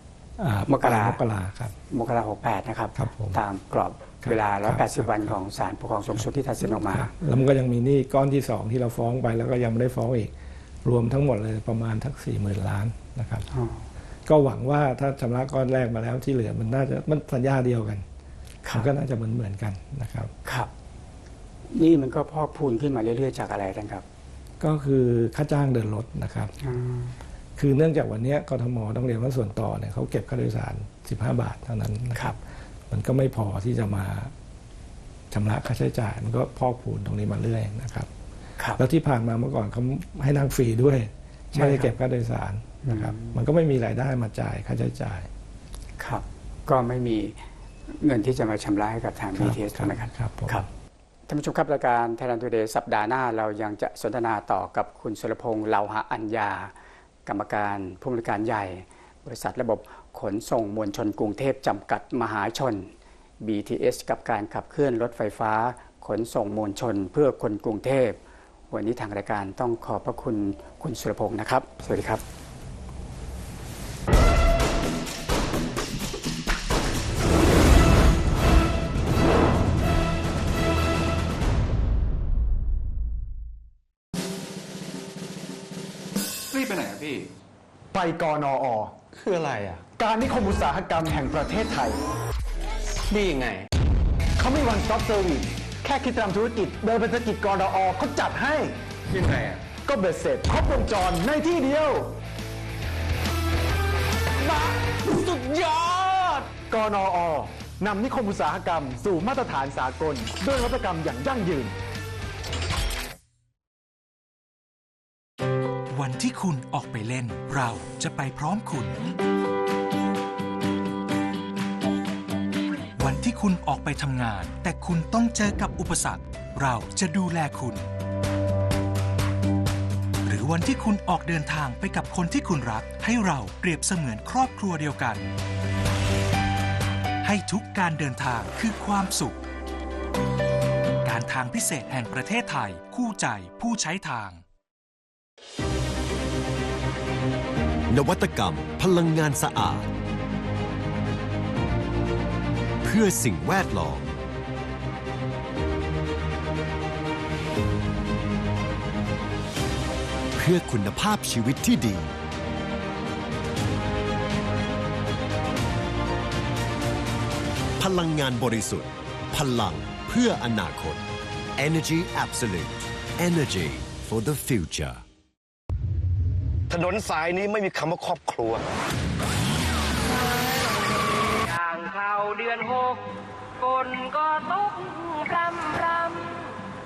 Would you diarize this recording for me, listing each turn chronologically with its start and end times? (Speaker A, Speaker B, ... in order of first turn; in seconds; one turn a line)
Speaker A: 0.4-1.7
Speaker B: 0.7-1.2
Speaker B: 1.9-7.1
Speaker A: 3.0-3.4
Speaker A: 4.2-5.3
Speaker A: 6.6-13.5
Speaker B: 13.5-13.8
Speaker A: 14.2-18.0
Speaker A: 18.7-20.3
Speaker B: 20.4-20.7
Speaker B: 21.7-24.0
Speaker A: 24.6-26.5
Speaker B: 26.6-27.1
Speaker A: 27.6-32.4
Speaker A: 32.9-34.3
Speaker A: 35.3-38.1
Speaker A: 38.8-45.3
Speaker B: 41.5-41.9
Speaker B: 42.8-43.4
Speaker B: 46.0-50.7
Speaker A: 49.4-50.6
Speaker B: 51.3-56.7
Speaker B: 57.2-72.2
Speaker C: 86.5-87.3
Speaker D: 87.9-88.9
Speaker C: 89.1-89.9
Speaker D: 89.9-92.0
Speaker C: 93.1-93.7
Speaker D: 94.4-98.8
Speaker C: 99.1-99.7
Speaker D: 99.8-102.2
Speaker D: 104.3-111.7
Speaker C: 105.9-106.1
Speaker E: 115.9-119.2
Speaker E: 123.0-127.9
Speaker E: 130.2-135.3
Speaker E: 137.2-139.4
Speaker E: 141.0-144.4
Speaker F: 147.9-149.9
Speaker F: 152.8-154.2
Speaker F: 160.3-162.1
Speaker F: 167.8-171.0
Speaker F: 171.6-175.0
Speaker G: 176.7-178.6
Speaker H: 180.0-183.0
Speaker H: 183.6-186.6